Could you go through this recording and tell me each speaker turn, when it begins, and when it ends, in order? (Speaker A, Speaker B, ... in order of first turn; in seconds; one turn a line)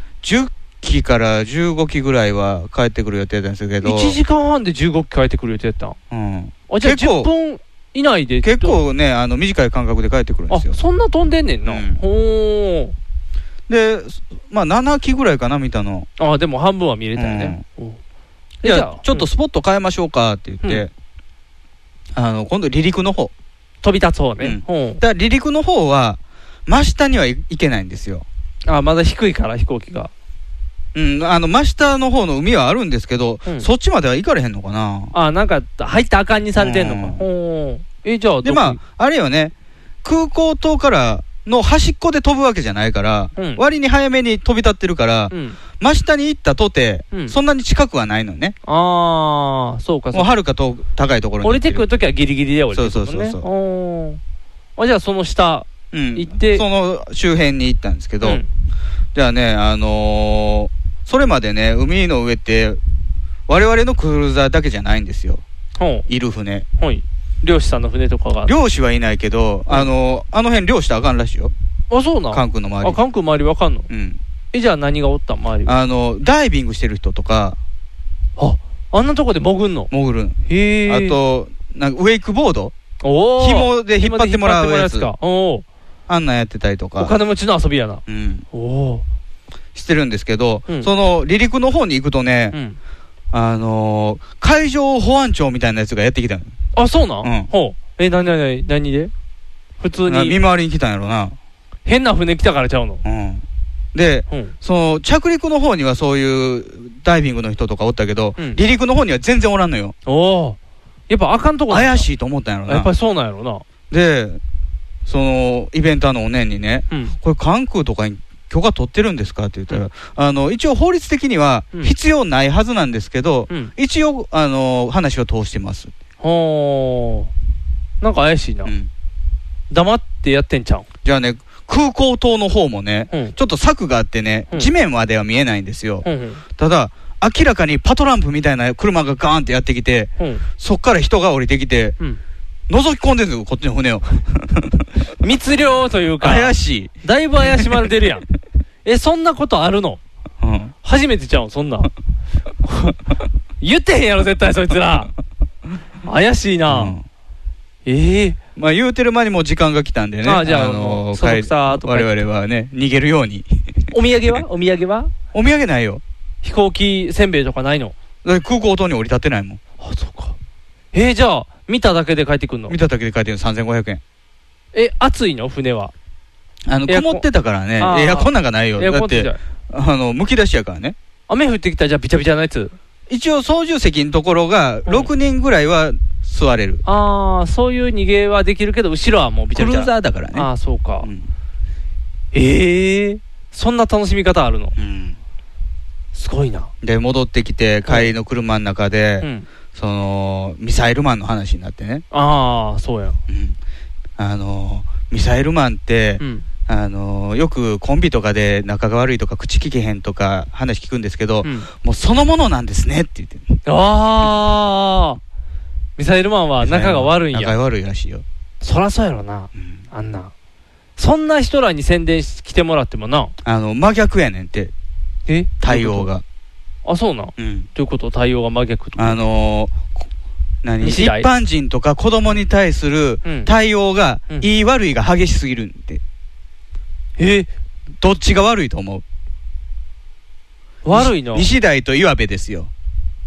Speaker A: 0.2-4.2
Speaker B: 3.8-6.0
Speaker A: 6.1-7.3
Speaker B: 6.7-8.8
Speaker A: 8.4-10.8
Speaker B: 10.5-12.9
Speaker A: 11.7-12.0
Speaker A: 13.7-16.1
Speaker B: 16.2-18.0
Speaker A: 17.2-17.6
Speaker B: 18.6-19.3
Speaker A: 18.6-20.9
Speaker A: 22.1-23.3
Speaker B: 23.8-25.0
Speaker A: 24.4-28.2
Speaker B: 28.7-30.1
Speaker A: 30.9-35.1
Speaker B: 35.1-38.8
Speaker A: 36.6-37.2
Speaker A: 38.4-39.5
Speaker A: 40.0-48.5
Speaker B: 43.4-43.6
Speaker B: 45.3-45.6
Speaker B: 48.6-50.3
Speaker A: 50.1-51.9
Speaker B: 51.4-54.2
Speaker A: 52.7-53.5
Speaker B: 54.8-56.6
Speaker A: 55.9-58.4
Speaker A: 59.1-62.8
Speaker A: 63.5-65.4
Speaker B: 65.8-66.0
Speaker A: 66.1-66.7
Speaker B: 66.8-68.5
Speaker A: 68.5-71.5
Speaker B: 71.9-73.9
Speaker A: 72.3-73.0
Speaker A: 73.9-74.2
Speaker B: 74.5-75.7
Speaker A: 75.7-77.6
Speaker B: 78.4-79.9
Speaker A: 79.9-82.7
Speaker B: 80.5-81.2
Speaker B: 83.0-85.6
Speaker A: 83.4-85.1
Speaker A: 86.1-87.1
Speaker B: 87.0-89.0
Speaker A: 88.1-88.5
Speaker A: 89.7-92.5
Speaker B: 92.5-92.8
Speaker A: 93.3-96.5
Speaker B: 96.7-99.1
Speaker A: 97.2-97.5
Speaker B: 99.8-100.4
Speaker A: 100.0-101.4
Speaker B: 101.8-103.0
Speaker A: 103.0-109.9
Speaker B: 110.0-110.6
Speaker B: 111.1-112.1
Speaker A: 111.7-112.9
Speaker B: 112.7-113.6
Speaker A: 113.9-114.4
Speaker A: 115.0-125.9
Speaker B: 126.2-127.3
Speaker B: 128.0-128.7
Speaker B: 129.7-130.8
Speaker A: 131.0-136.1
Speaker B: 136.0-136.4
Speaker A: 136.6-141.9
Speaker B: 140.2-140.4
Speaker A: 142.7-144.8
Speaker B: 145.2-148.2
Speaker A: 146.2-147.7
Speaker B: 148.8-150.0
Speaker A: 150.4-150.7
Speaker B: 150.8-151.9
Speaker B: 152.6-152.9
Speaker B: 153.6-155.1
Speaker B: 156.0-156.9
Speaker A: 156.7-157.0
Speaker B: 157.8-158.4
Speaker A: 158.6-164.3
Speaker B: 160.2-162.2
Speaker B: 163.9-165.1
Speaker A: 165.3-166.0
Speaker B: 166.4-167.9
Speaker A: 168.2-169.6
Speaker B: 169.8-170.3
Speaker B: 170.9-172.8
Speaker A: 172.7-174.0
Speaker B: 174.7-175.9
Speaker A: 176.7-180.9
Speaker B: 176.9-177.2
Speaker B: 177.8-179.4
Speaker B: 181.3-182.7
Speaker A: 183.1-186.8
Speaker B: 186.8-191.1
Speaker A: 189.5-190.5
Speaker A: 191.0-191.3
Speaker B: 192.3-194.7
Speaker A: 194.8-195.2
Speaker B: 196.1-196.7
Speaker A: 196.8-202.0
Speaker B: 199.2-199.5
Speaker B: 202.1-203.2
Speaker A: 203.3-203.6
Speaker A: 204.2-213.6
Speaker B: 206.2-206.4
Speaker B: 211.4-211.7
Speaker B: 213.7-215.2
Speaker B: 216.0-217.5
Speaker A: 216.6-218.2
Speaker B: 218.6-220.3
Speaker A: 219.5-219.8
Speaker B: 221.0-223.3
Speaker A: 223.4-224.7
Speaker B: 225.3-226.1
Speaker A: 225.6-226.2
Speaker B: 226.8-229.2
Speaker A: 227.4-227.7
Speaker A: 229.0-230.0
Speaker A: 230.6-236.0
Speaker B: 230.8-231.3
Speaker B: 233.2-233.5
Speaker B: 237.2-237.5
Speaker A: 238.0-239.0
Speaker B: 240.8-241.5
Speaker A: 240.9-242.7